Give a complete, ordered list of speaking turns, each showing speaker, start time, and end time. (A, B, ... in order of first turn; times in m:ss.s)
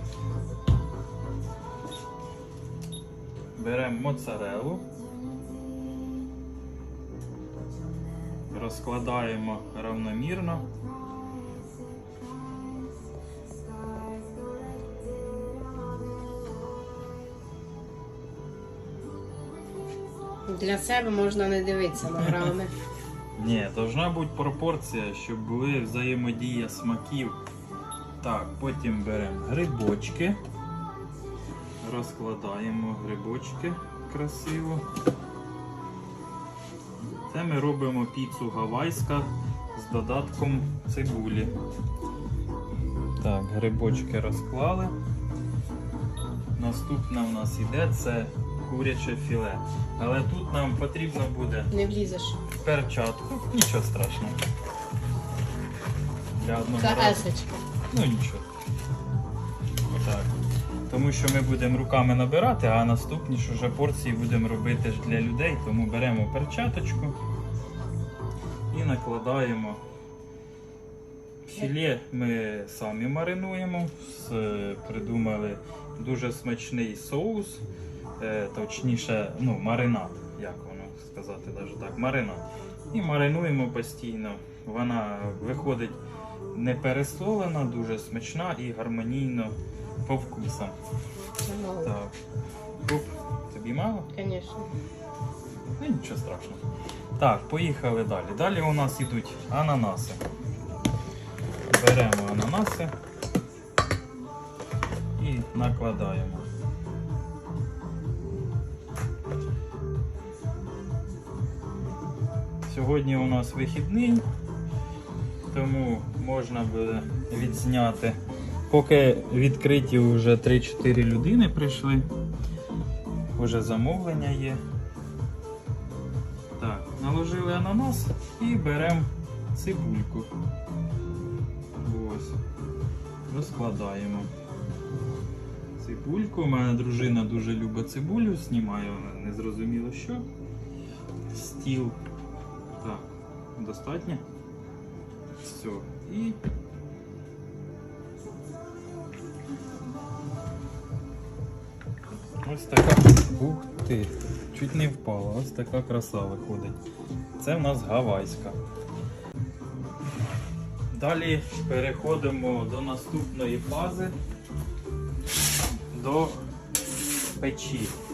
0:03.6-0:04.8 A
0:08.5-0:10.7 A
0:20.5-0:22.7 B
0:23.4-0:27.4 A
0:28.2-0:30.4 A
0:31.8-0:34.8 A
0:37.3-0:41.5 A
0:43.2-0:44.9 A
0:46.6-0:51.7 A
0:51.7-0:52.4 B
0:52.5-0:54.4 A
0:56.4-0:57.3 A
0:56.8-0:57.5 B
0:57.9-0:58.5 A
0:59.9-1:00.3 A
1:00.9-1:07.2 A
1:08.7-1:09.8 A
1:11.4-1:17.6 A
1:18.2-1:26.0 A
1:26.5-1:30.8 A
1:31.5-1:32.0 B
1:31.8-1:32.1 A
1:32.8-1:34.1 A
1:34.1-1:34.7 B
1:35.8-1:36.6 A
1:37.2-1:40.2 A
1:41.7-1:42.9 A
1:45.2-1:46.5 A
1:52.7-1:54.2 A
1:55.5-1:58.2 A
1:58.7-2:02.1 A
2:03.4-2:04.6 A
2:06.6-2:10.3 A
2:11.8-2:12.4 A
2:13.3-2:14.3 A
2:15.8-2:20.2 A
2:21.3-2:22.0 A
2:22.8-2:24.2 A
2:25.4-2:26.4 A
2:32.4-2:36.8 A
2:37.4-2:38.6 A
2:40.9-2:44.1 A
2:45.9-2:46.4 A
2:47.4-2:47.9 A